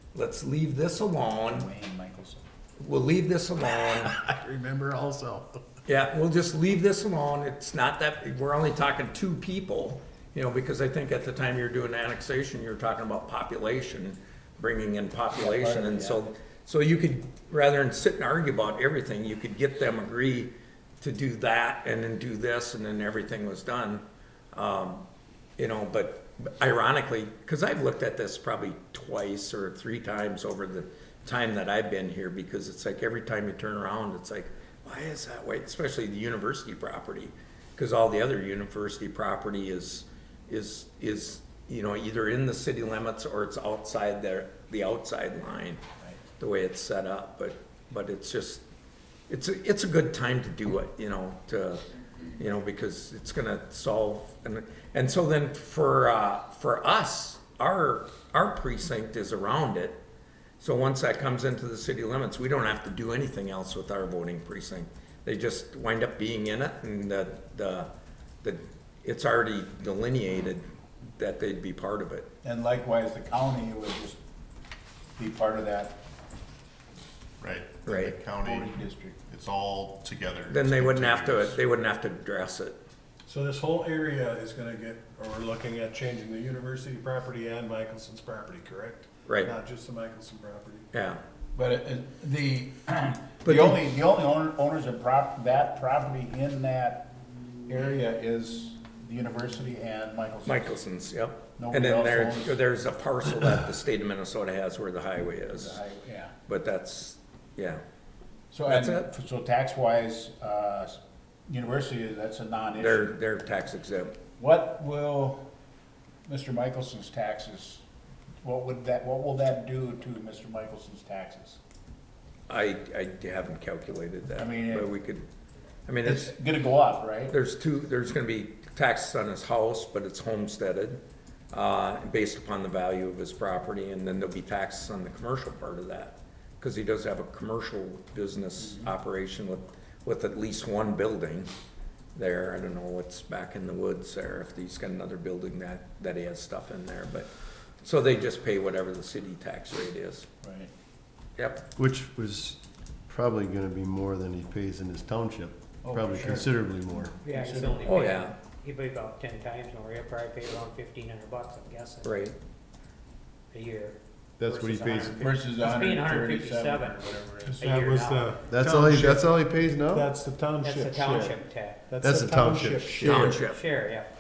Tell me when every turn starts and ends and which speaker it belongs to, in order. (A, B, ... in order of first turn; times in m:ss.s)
0:00.1-0:01.7 A
0:01.5-0:02.4 B
0:02.8-0:04.1 A
0:04.1-0:05.6 C
0:05.8-0:24.0 A
0:15.3-0:16.3 B
0:24.5-0:25.0 A
0:25.6-0:45.8 A
0:46.4-0:48.6 A
0:49.3-0:51.8 A
0:52.4-1:00.0 A
1:00.6-1:07.9 A
1:08.4-1:10.6 A
1:11.2-1:12.3 A
1:12.4-1:14.2 B
1:15.2-1:16.0 B
1:17.4-1:21.6 D
1:17.8-1:18.1 A
1:18.3-1:19.2 B
1:20.5-1:22.8 A
1:23.3-1:30.9 C
1:29.2-1:29.5 A
1:30.9-1:31.2 A
1:31.5-1:37.1 B
1:33.4-1:33.8 A
1:37.7-1:40.7 B
1:40.4-1:45.8 A
1:41.6-1:42.6 B
1:45.6-1:46.3 B
1:46.5-1:47.8 A
1:48.5-1:53.2 B
1:48.6-1:49.1 A
1:52.8-1:54.1 A
1:54.4-1:55.4 B
1:56.3-1:57.8 B
1:58.4-2:01.6 B
2:02.5-2:05.2 A
2:04.4-2:04.9 B
2:05.9-2:06.3 A
2:06.0-2:07.3 B
2:07.3-2:11.0 A
2:11.5-2:21.5 A
2:22.1-2:27.3 A
2:27.8-2:30.3 A
2:30.4-2:30.7 B
2:31.4-2:31.6 A
2:31.8-2:37.1 E
2:35.8-2:36.5 B
2:37.2-2:38.2 B
2:37.2-2:42.1 F
2:37.9-2:38.3 A
2:42.0-2:42.3 A
2:43.5-2:48.4 F
2:44.4-2:45.2 E
2:45.1-2:47.7 B
2:47.4-2:49.3 C
2:48.5-2:50.1 E
2:49.9-2:53.4 C
2:50.6-2:51.8 F
2:52.0-2:53.4 E
2:53.0-2:53.6 A
2:53.3-2:54.1 F